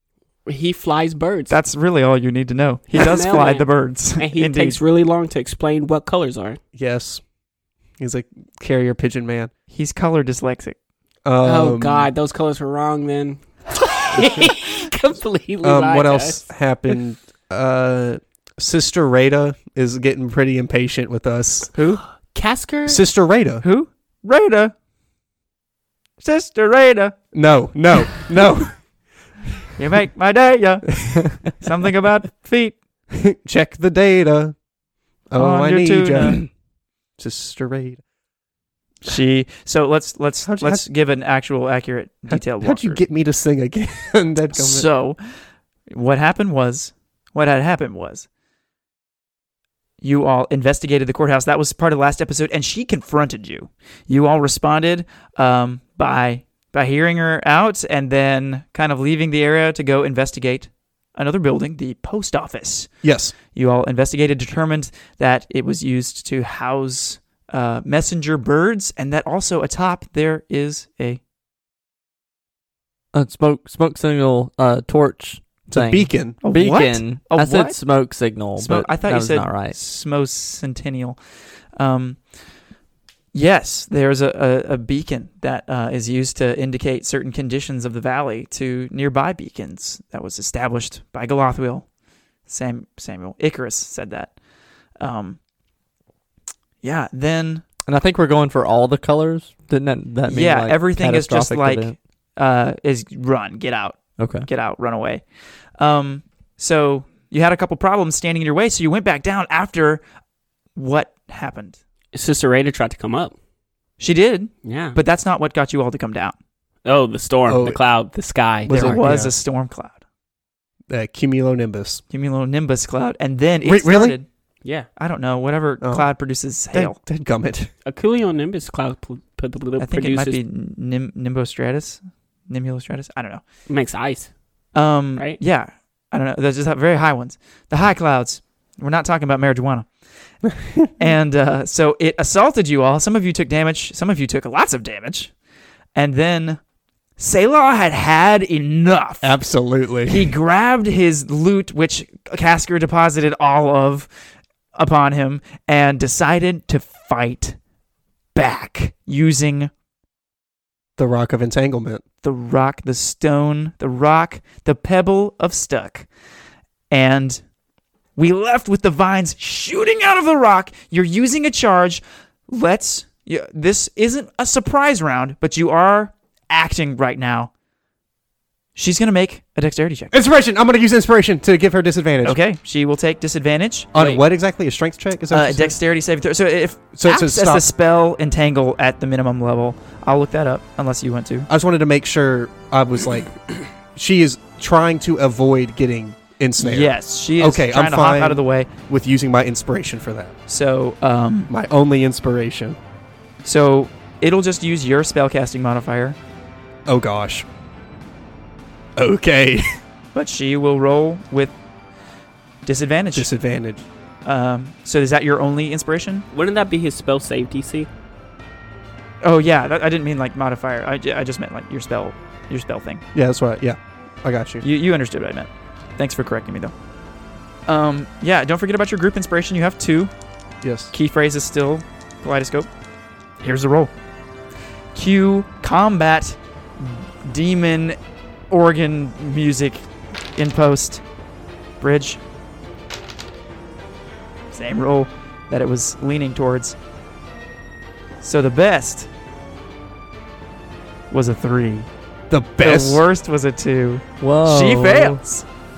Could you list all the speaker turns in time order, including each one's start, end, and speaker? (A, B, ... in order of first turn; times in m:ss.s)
0:00.4-0:01.6 A
0:01.5-0:04.8 B
0:02.9-0:06.6 A
0:06.7-0:07.2 C
0:08.0-0:09.5 C
0:09.7-0:10.8 B
0:11.2-0:12.1 C
0:11.4-0:16.4 A
0:15.6-0:21.7 C
0:21.7-0:22.0 B
0:22.3-0:23.0 A
0:22.9-0:23.6 C
0:23.6-0:24.7 B
0:26.2-0:27.2 B
0:27.3-0:28.8 C
0:29.8-0:32.8 B
0:33.1-0:34.5 C
0:35.3-0:36.5 C
0:35.4-0:36.4 B
0:37.2-0:38.0 C
0:39.0-0:43.0 B
0:40.4-0:40.8 C
0:42.3-0:44.8 C
0:44.5-0:45.2 B
0:45.9-0:48.3 B
0:50.0-1:02.9 B
1:03.0-1:03.3 C
1:03.5-1:11.2 B
1:13.1-1:19.8 D
1:15.7-1:16.4 C
1:16.4-1:17.8 B
1:18.6-1:21.2 B
1:21.8-1:22.2 B
1:23.3-1:31.9 B
1:32.5-1:34.3 B
1:35.0-1:35.4 B
1:36.8-1:37.6 B
1:37.8-1:41.9 D
1:40.3-1:45.2 B
1:44.2-1:44.5 D
1:45.8-1:50.0 B
1:50.7-1:51.8 B
1:52.1-1:53.3 A
1:54.0-1:56.3 B
1:54.6-1:55.0 A
1:56.8-1:59.0 A
1:57.4-1:57.8 C
1:58.6-1:59.3 C
1:58.7-2:00.0 B
2:00.9-2:02.0 C
2:02.1-2:04.3 B
2:03.6-2:04.2 C
2:05.0-2:07.0 B
2:05.8-2:06.1 C
2:06.7-2:07.7 C
2:07.8-2:10.4 A
2:09.8-2:13.4 B
2:13.7-2:14.3 A
2:14.7-2:19.9 B
2:20.4-2:20.9 C
2:21.0-2:25.3 B
2:25.9-2:26.6 B
2:27.2-2:29.4 B
2:29.2-2:30.3 C
2:30.0-2:34.1 B
2:34.8-2:37.6 B
2:38.3-2:39.7 B
2:41.0-2:42.0 C
2:42.2-2:46.1 B
2:46.9-2:47.4 B
2:48.2-2:57.5 B
2:58.8-3:00.1 B
3:00.1-3:02.4 C
3:02.2-3:04.2 B
3:03.9-3:05.8 C
3:05.3-3:11.5 B
3:06.9-3:07.6 C
3:11.5-3:13.3 C
3:13.9-3:20.3 C
3:16.6-3:18.7 B
3:20.5-3:21.5 B
3:21.5-3:22.8 C
3:23.4-3:26.2 B
3:26.9-3:27.4 C
3:29.0-3:29.6 C
3:30.1-3:31.6 B
3:32.6-3:33.3 B
3:33.1-3:33.8 C
3:34.2-3:36.2 B
3:36.3-3:37.9 A
3:39.2-3:43.0 B
3:43.1-3:44.6 C
3:44.6-3:46.7 B
3:47.7-3:50.1 B
3:50.6-3:50.9 C
3:50.9-3:52.7 B
3:53.4-3:53.9 B
3:54.9-3:58.0 B
3:58.5-3:59.8 B
4:00.4-4:01.0 B
4:01.8-4:02.2 B
4:04.5-4:06.8 B
4:08.2-4:09.1 B
4:11.1-4:11.9 B
4:12.3-4:13.0 C
4:12.6-4:15.4 B
4:14.2-4:15.2 D